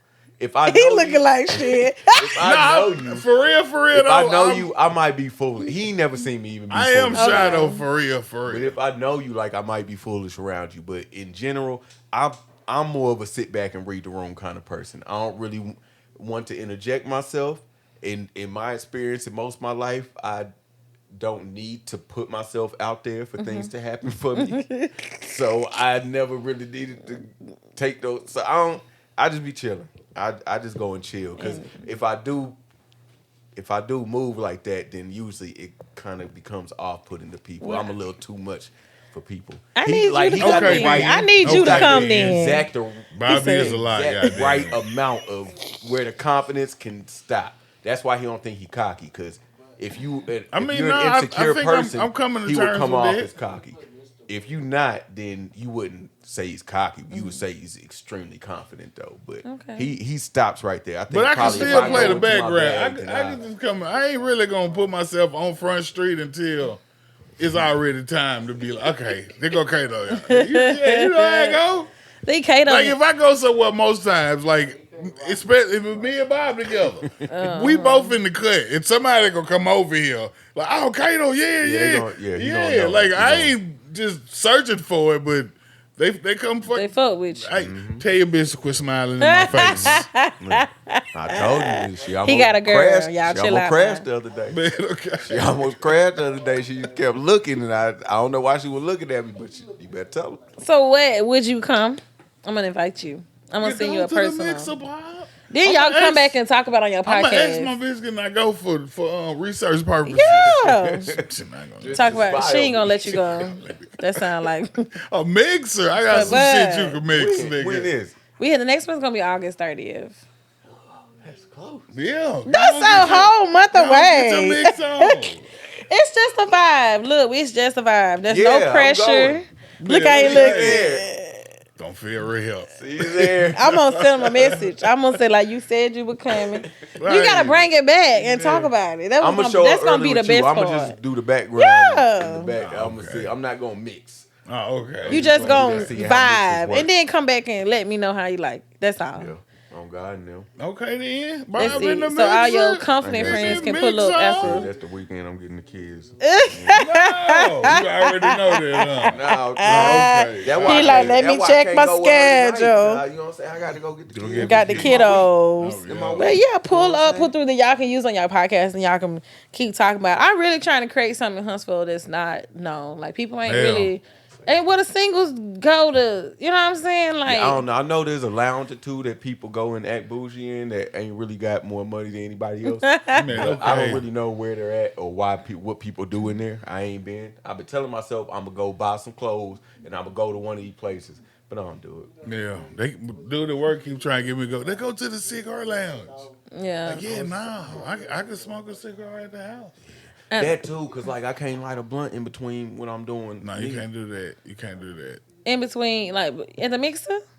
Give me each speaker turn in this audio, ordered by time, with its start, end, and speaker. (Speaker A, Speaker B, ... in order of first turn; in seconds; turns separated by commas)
Speaker A: 0.4-3.3, Speaker B: 0.7-2.4, Speaker C: 2.4-4.7, Speaker A: 3.9-7.7, Speaker C: 6.7-8.8, Speaker B: 7.1-7.8, Speaker A: 8.5-20.5, Speaker A: 21.1-24.6, Speaker B: 23.4-23.7, Speaker B: 24.4-25.3, Speaker A: 25.2-32.6, Speaker B: 31.4-31.7, Speaker A: 33.5-63.4, Speaker B: 37.6-37.9, Speaker B: 39.8-42.7, Speaker C: 40.4-42.4, Speaker C: 43.1-44.8, Speaker B: 43.3-44.3, Speaker C: 50.5-53.3, Speaker B: 57.1-57.4, Speaker B: 59.5-59.9, Speaker C: 61.1-66.8, Speaker B: 61.4-62.3, Speaker C: 67.4-71.9, Speaker B: 70.2-71.6, Speaker B: 72.2-73.0, Speaker C: 72.7-90.1, Speaker B: 77.3-78.2, Speaker A: 81.6-83.5, Speaker B: 86.7-87.5, Speaker A: 87.5-88.1, Speaker B: 89.2-94.1, Speaker A: 89.4-94.6, Speaker C: 94.5-96.1, Speaker A: 95.3-100.4, Speaker B: 100.6-104.7, Speaker C: 103.6-106.4, Speaker B: 105.5-107.8, Speaker C: 107.0-112.4, Speaker B: 110.1-111.1, Speaker A: 110.2-111.2, Speaker A: 111.8-113.5, Speaker B: 111.9-114.9, Speaker C: 113.1-113.9, Speaker C: 115.1-117.9, Speaker A: 116.1-116.5, Speaker B: 116.1-117.0, Speaker A: 117.1-118.2, Speaker B: 118.4-120.2, Speaker A: 120.7-121.9, Speaker C: 121.9-125.5, Speaker B: 122.5-125.2, Speaker B: 125.9-131.5, Speaker A: 128.3-129.4, Speaker C: 129.8-130.8, Speaker A: 130.1-131.1, Speaker C: 131.8-134.7, Speaker A: 132.8-133.7, Speaker B: 133.5-141.0, Speaker A: 136.3-136.7, Speaker C: 137.0-137.7, Speaker A: 138.1-144.3, Speaker B: 141.6-142.5, Speaker C: 142.6-143.3, Speaker C: 144.5-146.1, Speaker A: 145.0-146.9, Speaker B: 145.1-149.3, Speaker A: 149.1-150.5, Speaker C: 150.6-154.7, Speaker B: 151.6-154.7, Speaker A: 151.6-151.9, Speaker A: 153.0-153.7, Speaker A: 154.2-156.8, Speaker B: 156.2-163.0, Speaker C: 156.7-161.2, Speaker A: 159.1-165.3, Speaker C: 164.1-166.4, Speaker B: 164.4-177.6, Speaker A: 165.8-167.3, Speaker C: 173.5-173.9, Speaker A: 177.2-192.1, Speaker B: 182.7-183.6, Speaker C: 183.2-184.0, Speaker C: 192.2-196.3, Speaker B: 196.5-197.0, Speaker C: 196.8-199.8, Speaker B: 200.3-200.6, Speaker A: 200.4-203.9, Speaker C: 203.4-205.2, Speaker B: 205.4-207.2